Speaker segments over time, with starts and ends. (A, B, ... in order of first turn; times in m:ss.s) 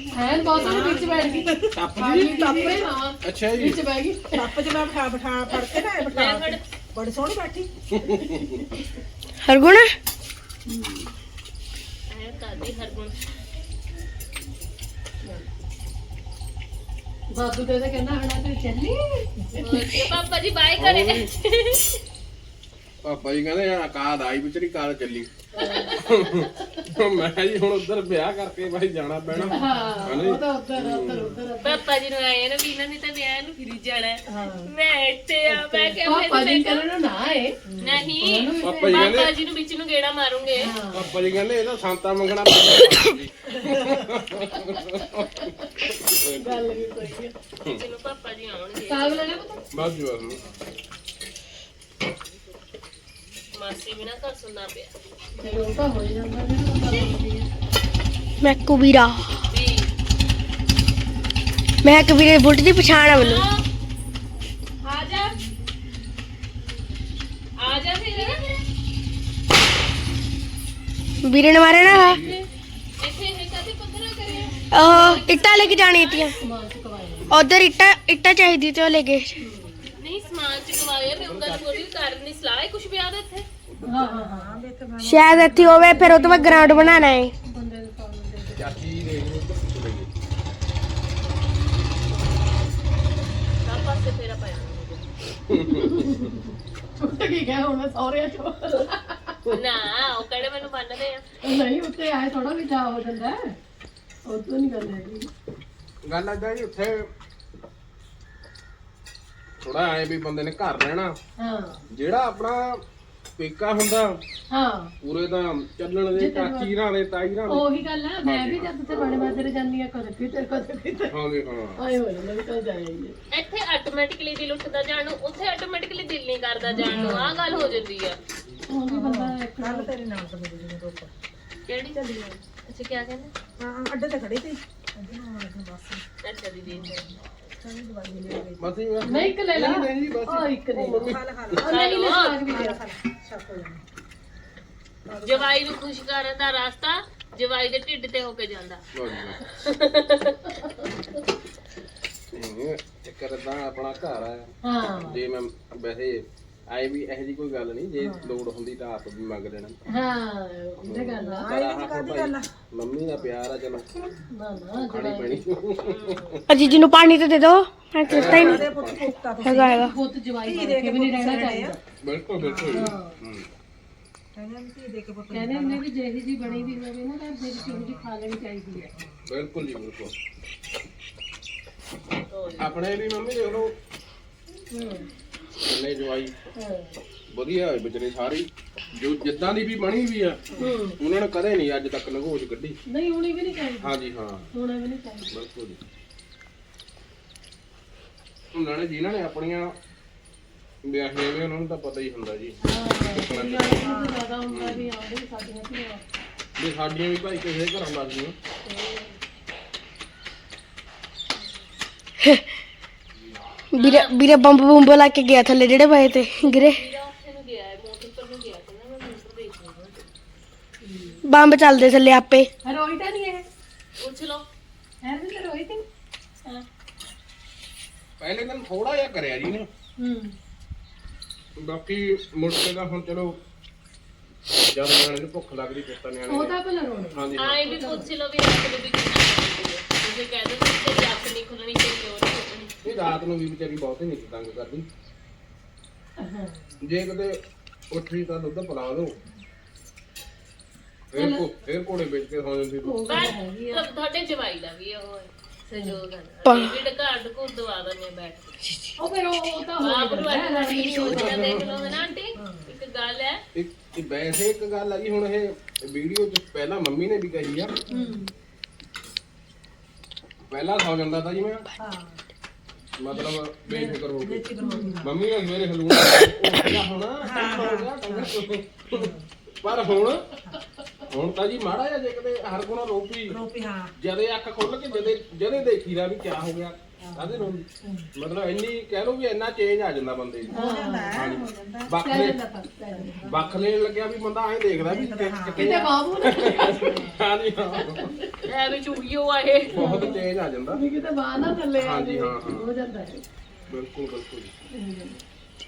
0:00.1-0:04.6 A
0:00.4-0:02.9 B
0:01.7-0:02.6 C
0:03.2-0:03.8 C
0:04.4-0:07.7 B
0:06.1-0:06.6 D
0:08.0-0:08.6 C
0:09.5-0:09.9 E
0:12.1-0:13.1 D
0:17.3-0:20.0 A
0:19.6-0:22.0 D
0:20.8-0:21.3 C
0:23.0-0:25.3 C
0:25.5-0:26.0 A
0:25.9-0:31.4 C
0:29.5-0:31.8 A
0:31.6-0:36.9 D
0:34.4-0:34.7 A
0:36.0-0:37.6 A
0:37.7-0:38.0 B
0:37.8-0:40.7 D
0:38.2-0:39.1 A
0:38.6-0:39.3 C
0:40.6-0:41.1 A
0:40.9-0:47.1 C
0:46.4-0:47.4 A
0:47.7-0:49.6 D
0:48.9-0:49.6 A
0:49.7-0:50.4 C
0:53.6-0:55.8 D
0:55.4-0:57.5 A
0:58.4-0:59.4 E
0:59.5-0:59.9 D
1:01.8-1:03.4 E
1:03.1-1:03.6 D
1:04.8-1:05.4 D
1:07.6-1:08.6 D
1:11.3-1:12.2 E
1:11.8-1:12.4 C
1:12.1-1:12.4 D
1:13.0-1:16.3 D
1:14.7-1:16.4 E
1:16.4-1:17.3 A
1:17.3-1:19.3 E
1:20.0-1:23.5 D
1:21.2-1:21.8 C
1:23.7-1:24.1 C
1:23.8-1:24.6 A
1:24.0-1:26.4 B
1:25.0-1:27.3 E
1:25.6-1:28.7 A
1:28.6-1:30.1 C
1:33.6-1:35.1 D
1:35.5-1:36.1 C
1:35.8-1:36.4 A
1:37.0-1:39.4 A
1:39.5-1:41.3 D
1:41.4-1:43.5 A
1:44.3-1:45.3 A
1:46.0-1:47.1 C
1:49.6-1:51.2 C
1:51.4-1:51.8 A
1:51.9-1:52.8 C
1:53.4-1:54.2 C
1:54.5-1:54.9 A
1:55.0-1:57.7 C
1:56.2-1:56.7 A
1:57.5-2:01.1 A
1:58.2-1:58.7 C
2:01.1-2:01.8 C
2:01.8-2:03.1 A
2:03.3-2:08.2 D
2:06.7-2:07.4 A
2:08.7-2:09.9 A
2:08.9-2:11.1 B
2:11.7-2:13.3 D
2:11.9-2:12.3 B
2:13.6-2:16.0 B
2:16.2-2:17.1 D
2:16.7-2:18.7 B
2:18.6-2:21.2 C
2:19.1-2:22.8 A
2:20.8-2:21.8 B
2:21.7-2:22.4 D
2:22.3-2:23.8 B
2:25.1-2:25.5 B
2:25.2-2:28.8 D
2:29.0-2:29.4 C
2:29.5-2:30.5 D
2:32.3-2:39.8 C
2:34.6-2:35.2 A
2:38.0-2:38.3 B
2:39.9-2:41.5 A
2:40.8-2:44.1 C
2:41.2-2:42.5 B
2:44.3-2:45.4 A
2:44.9-2:46.4 C
2:46.0-2:46.6 D
2:46.5-2:48.7 E
2:48.0-2:49.0 C
2:48.1-2:49.9 B
2:49.4-2:49.9 E
2:49.6-2:51.8 A
2:50.4-2:51.8 B
2:52.0-2:53.5 C
2:52.4-2:52.9 B
2:52.7-2:53.2 A
2:54.4-2:55.8 B
2:55.3-2:58.9 A
2:56.5-2:56.7 B
2:57.6-2:58.1 B
2:58.9-2:59.2 B
2:59.3-3:00.1 C
3:02.3-3:02.8 D
3:02.6-3:03.7 C
3:04.7-3:05.1 A
3:05.6-3:06.3 C
3:06.6-3:07.0 A
3:07.3-3:12.8 C
3:10.6-3:11.0 A
3:12.9-3:13.9 A
3:13.8-3:14.5 C
3:14.5-3:15.3 A
3:15.3-3:15.8 C
3:18.6-3:19.7 C
3:20.8-3:22.6 C
3:22.6-3:26.0 A
3:23.1-3:23.8 C
3:23.8-3:24.2 B
3:24.5-3:24.8 C
3:26.6-3:28.4 C
3:28.7-3:29.1 A
3:33.7-3:36.8 E
3:33.8-3:34.1 D
3:36.4-3:40.0 D
3:40.8-3:41.2 A
3:41.3-3:42.5 E
3:42.7-3:43.4 A
3:44.0-3:44.4 D
3:45.0-3:45.8 A
3:48.2-3:49.7 C
3:50.0-3:50.3 A
3:51.6-3:53.4 C
3:54.7-3:57.8 C
3:56.3-3:58.1 A
3:57.4-4:03.2 D
4:02.8-4:04.9 C
4:06.2-4:06.8 A
4:06.8-4:07.4 C
4:07.9-4:09.2 C
4:11.1-4:13.3 C
4:11.1-4:11.4 A
4:12.8-4:13.8 A
4:13.1-4:18.6 D
4:15.7-4:16.0 A
4:16.4-4:16.8 E
4:19.0-4:22.0 A
4:19.8-4:23.4 D
4:21.0-4:21.6 C
4:22.4-4:22.7 B
4:23.6-4:27.8 C
4:27.9-4:28.2 B
4:27.9-4:28.2 A
4:30.5-4:31.6 C
4:31.8-4:32.2 B
4:33.0-4:34.5 C
4:34.2-4:35.1 B
4:34.6-4:35.0 A
4:35.0-4:39.1 C
4:37.2-4:38.4 B
4:39.6-4:40.3 C
4:41.1-4:43.4 C
4:43.3-4:43.9 B
4:44.0-4:52.4 C
4:47.0-4:47.5 B
4:50.5-4:51.2 A
4:50.5-4:51.9 B
4:52.0-4:53.2 A
4:52.9-4:53.6 B
4:53.2-4:58.1 C
4:54.8-4:55.9 B
4:55.6-4:57.0 A
4:57.9-4:58.5 A
4:58.5-5:00.1 D
4:59.7-5:00.2 A
4:59.8-5:00.8 C
5:00.7-5:03.2 A
5:01.8-5:02.7 C
5:03.7-5:04.5 C
5:04.7-5:05.2 A